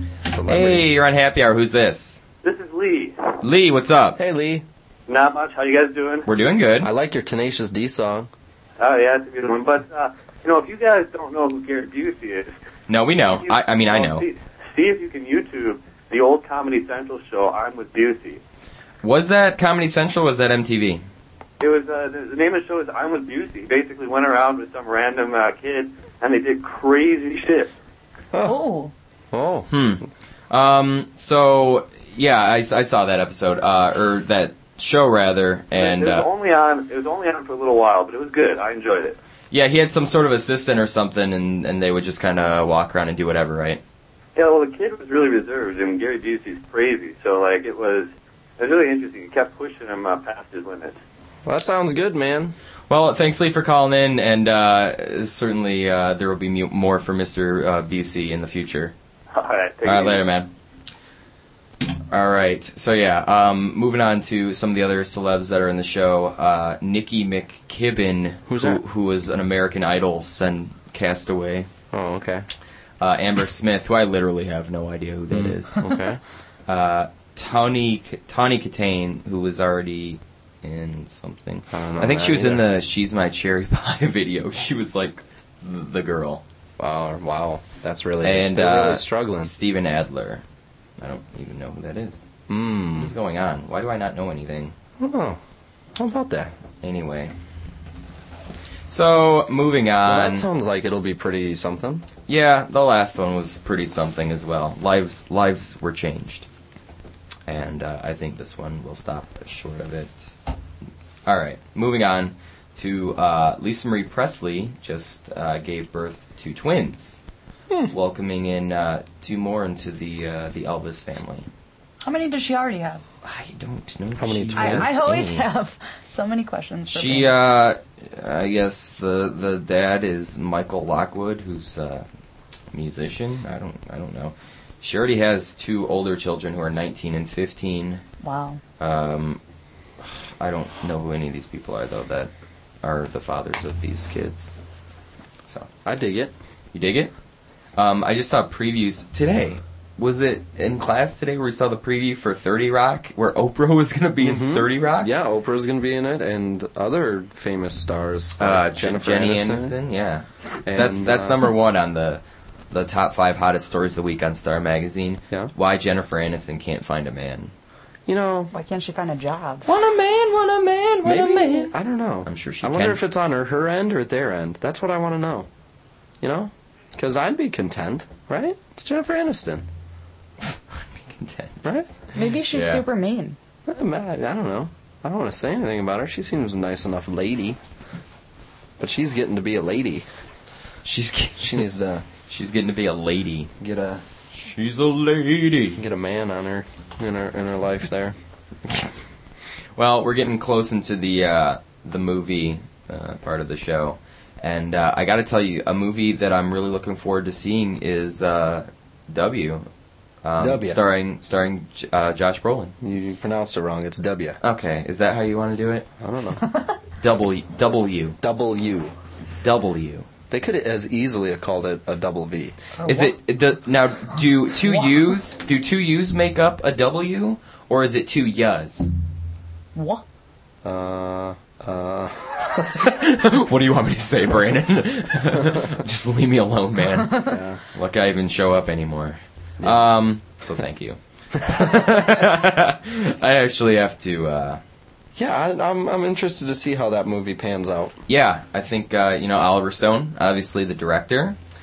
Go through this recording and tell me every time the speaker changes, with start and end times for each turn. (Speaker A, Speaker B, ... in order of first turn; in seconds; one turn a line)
Speaker A: 0.2-0.9
Speaker B: 0.5-2.2
Speaker C: 2.4-3.2
Speaker B: 3.4-4.2
Speaker A: 4.2-4.7
Speaker C: 5.1-6.3
Speaker B: 6.3-6.9
Speaker A: 6.8-8.3
Speaker C: 8.8-12.5
Speaker B: 12.9-14.3
Speaker C: 13.3-18.4
Speaker B: 19.0-21.0
Speaker C: 21.6-27.7
Speaker A: 28.3-28.6
Speaker D: 28.4-28.9
Speaker A: 29.3-29.7
Speaker B: 29.7-36.3
Speaker C: 35.7-39.2
Speaker B: 39.5-43.8
Speaker C: 44.4-51.0
Speaker A: 51.5-52.5
Speaker B: 52.9-58.9
Speaker C: 59.3-60.2
Speaker B: 59.8-60.5
Speaker B: 62.1-71.7
Speaker A: 68.5-68.8
Speaker A: 71.9-72.5
Speaker B: 73.0-75.9
Speaker A: 75.3-76.2
Speaker B: 76.7-86.4
Speaker A: 81.7-82.7
Speaker A: 86.8-89.5
Speaker B: 88.2-90.4
Speaker B: 91.0-92.2
Speaker A: 92.5-93.2
Speaker B: 93.0-94.7
Speaker A: 95.0-95.4
Speaker A: 96.0-96.5
Speaker B: 96.8-97.3
Speaker B: 98.9-100.5
Speaker A: 100.0-102.1
Speaker B: 102.3-106.5
Speaker B: 107.5-110.3
Speaker B: 111.3-117.2
Speaker B: 117.9-121.5
Speaker D: 122.0-123.0
Speaker B: 123.2-125.5
Speaker A: 124.2-125.1
Speaker D: 124.6-127.3
Speaker B: 126.9-132.1
Speaker B: 132.7-138.0
Speaker D: 138.2-138.6
Speaker B: 138.8-139.4
Speaker B: 140.0-142.3
Speaker B: 142.8-144.5
Speaker A: 145.8-146.3
Speaker B: 146.7-147.1
Speaker B: 147.8-155.1
Speaker A: 154.2-159.8
Speaker B: 158.4-167.5
Speaker A: 160.7-161.5
Speaker A: 168.1-168.5
Speaker D: 168.5-169.7
Speaker B: 169.7-173.0
Speaker A: 171.0-175.5
Speaker A: 176.2-179.7
Speaker B: 180.4-182.8
Speaker A: 181.6-181.9
Speaker D: 182.2-183.4
Speaker A: 183.7-187.6
Speaker A: 188.8-190.1
Speaker B: 190.8-191.7
Speaker A: 191.4-192.1
Speaker B: 192.3-193.5
Speaker A: 193.6-194.0
Speaker B: 194.3-195.8
Speaker A: 195.8-198.2
Speaker B: 199.8-209.7
Speaker B: 210.2-212.7
Speaker A: 210.4-210.8
Speaker A: 212.8-214.4
Speaker B: 214.4-215.9
Speaker A: 216.0-216.4
Speaker B: 217.0-218.2
Speaker A: 218.2-218.9
Speaker B: 219.4-220.1
Speaker A: 220.3-222.6
Speaker D: 222.8-223.2
Speaker B: 222.8-228.9
Speaker D: 224.6-225.0
Speaker D: 229.8-230.0
Speaker A: 230.6-232.9
Speaker B: 232.8-244.6
Speaker A: 237.2-237.6
Speaker A: 239.6-239.9
Speaker A: 245.2-248.0
Speaker B: 248.1-251.4